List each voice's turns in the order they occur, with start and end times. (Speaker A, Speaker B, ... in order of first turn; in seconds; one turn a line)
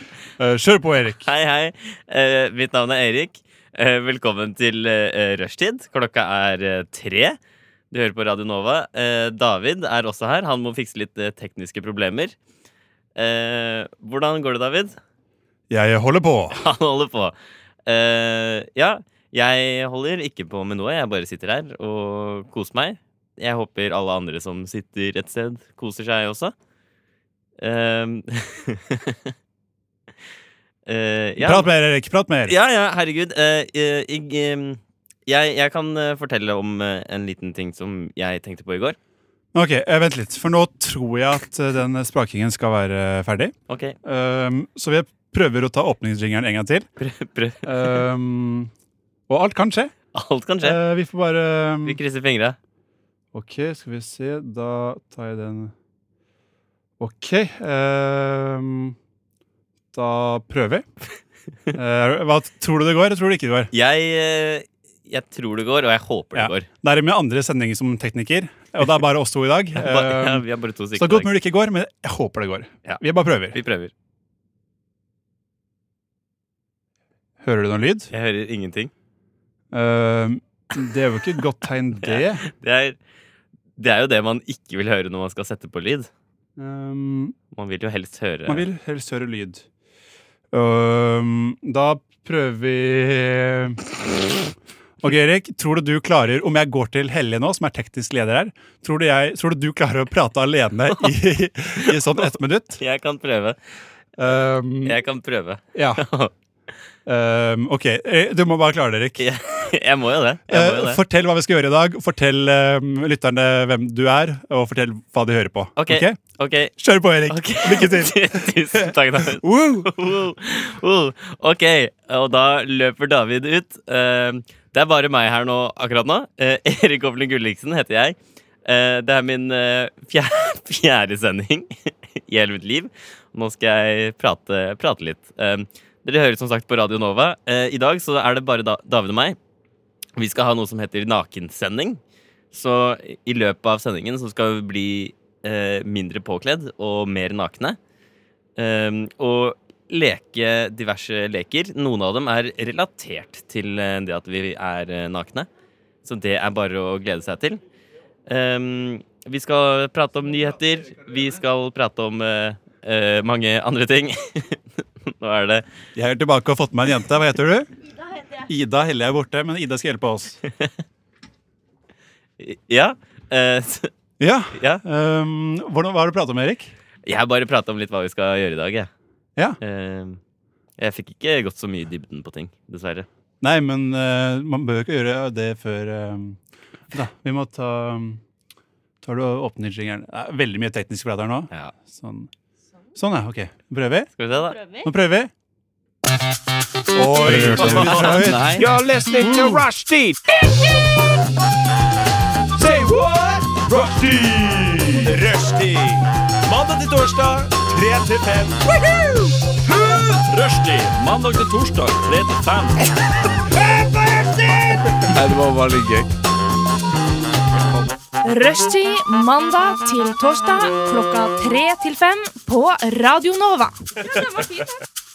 Speaker A: 0.4-1.3
Speaker B: 1.2-7.4
Speaker B: 7.9-12.3
Speaker B: 13.2-15.0
Speaker A: 15.7-16.6
Speaker B: 16.5-17.4
Speaker B: 17.9-26.5
Speaker B: 27.6-29.3
Speaker B: 30.9-31.7
Speaker A: 31.4-32.5
Speaker B: 32.5-39.0
Speaker A: 39.5-46.9
Speaker B: 43.7-44.0
Speaker B: 47.0-48.0
Speaker A: 47.6-48.7
Speaker A: 49.3-49.9
Speaker B: 50.1-50.8
Speaker A: 50.6-52.0
Speaker B: 51.9-52.6
Speaker A: 53.3-55.7
Speaker A: 57.0-59.0
Speaker A: 59.9-60.9
Speaker A: 61.7-63.7
Speaker B: 63.7-66.7
Speaker A: 66.3-70.4
Speaker B: 69.8-71.3
Speaker A: 71.0-73.6
Speaker B: 73.5-73.9
Speaker A: 77.4-78.1
Speaker B: 78.1-78.9
Speaker A: 79.7-82.5
Speaker B: 82.0-83.0
Speaker B: 83.8-86.1
Speaker A: 86.6-87.3
Speaker B: 87.5-88.7
Speaker A: 88.5-89.6
Speaker A: 90.5-93.8
Speaker A: 95.0-102.8
Speaker B: 101.8-102.2
Speaker B: 102.8-103.6
Speaker A: 104.2-105.0
Speaker B: 104.8-106.3
Speaker A: 105.7-106.0
Speaker A: 107.1-109.3
Speaker B: 109.2-111.0
Speaker A: 110.5-116.2
Speaker B: 115.8-116.8
Speaker A: 116.8-119.9
Speaker B: 117.3-139.4
Speaker B: 140.2-142.0
Speaker B: 142.5-147.8
Speaker B: 148.6-155.5
Speaker B: 156.0-157.6
Speaker B: 158.3-165.7
Speaker A: 165.9-167.7
Speaker A: 168.3-170.4
Speaker B: 172.4-173.9
Speaker A: 174.2-176.7
Speaker B: 174.5-174.8
Speaker B: 177.1-178.9
Speaker B: 179.6-180.2
Speaker B: 180.8-183.1
Speaker A: 183.4-186.4
Speaker A: 186.9-188.2
Speaker A: 189.0-192.3
Speaker A: 193.0-194.1
Speaker B: 194.2-194.7
Speaker A: 194.7-195.3
Speaker A: 196.9-198.7
Speaker C: 197.1-200.2
Speaker B: 197.6-198.5
Speaker A: 199.2-199.6
Speaker C: 202.6-208.9
Speaker A: 204.8-205.2
Speaker C: 209.7-212.8
Speaker C: 215.1-216.1
Speaker D: 218.2-224.7